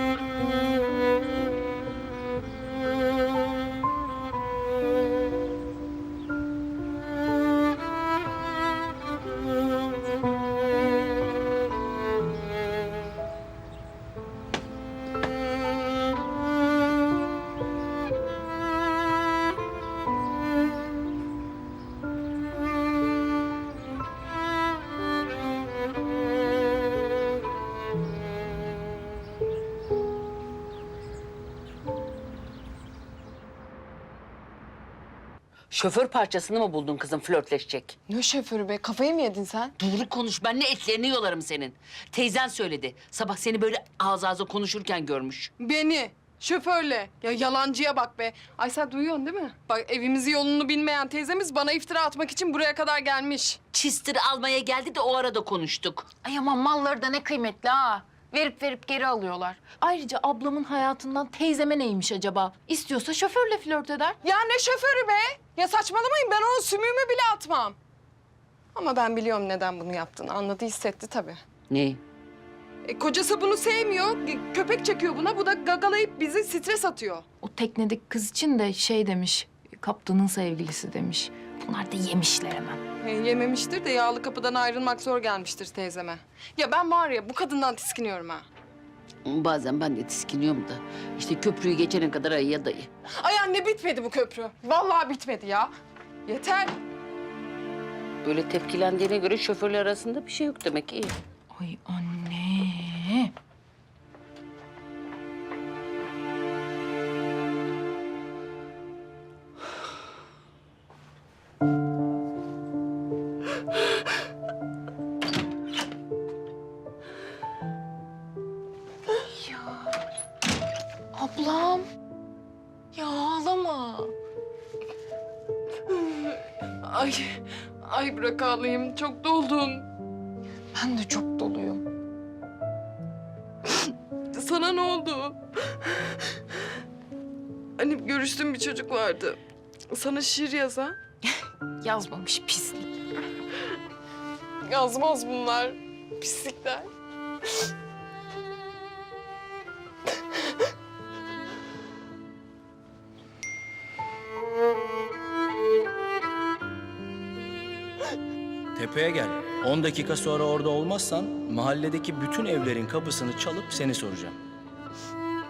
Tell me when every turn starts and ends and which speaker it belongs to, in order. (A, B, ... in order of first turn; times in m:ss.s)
0:35.7-0:37.9 A
0:38.1-0:39.7 B
0:39.8-0:45.5 A
0:45.6-0:53.6 B
0:53.7-0:56.1 A
0:56.2-1:04.2 C
1:04.2-1:07.8 B
1:08.8-1:11.4 B
1:11.7-1:12.0 A
1:12.8-1:17.2 B
1:17.4-1:22.8 C
1:23.0-1:28.5 B
1:29.2-1:32.9 A
1:33.2-1:35.7 B
1:36.3-1:36.8 B
1:38.2-1:41.2 A
1:41.5-1:43.3 C
1:59.4-1:59.8 C
2:01.1-2:01.8 C
2:02.9-2:04.1 C
2:05.9-2:09.9 B
2:10.7-2:11.8 C
2:14.3-2:15.9 B
2:17.8-2:19.4 B
2:19.9-2:21.0 B
2:21.8-2:23.0 C
2:24.7-2:26.9 B
2:38.8-2:44.3 D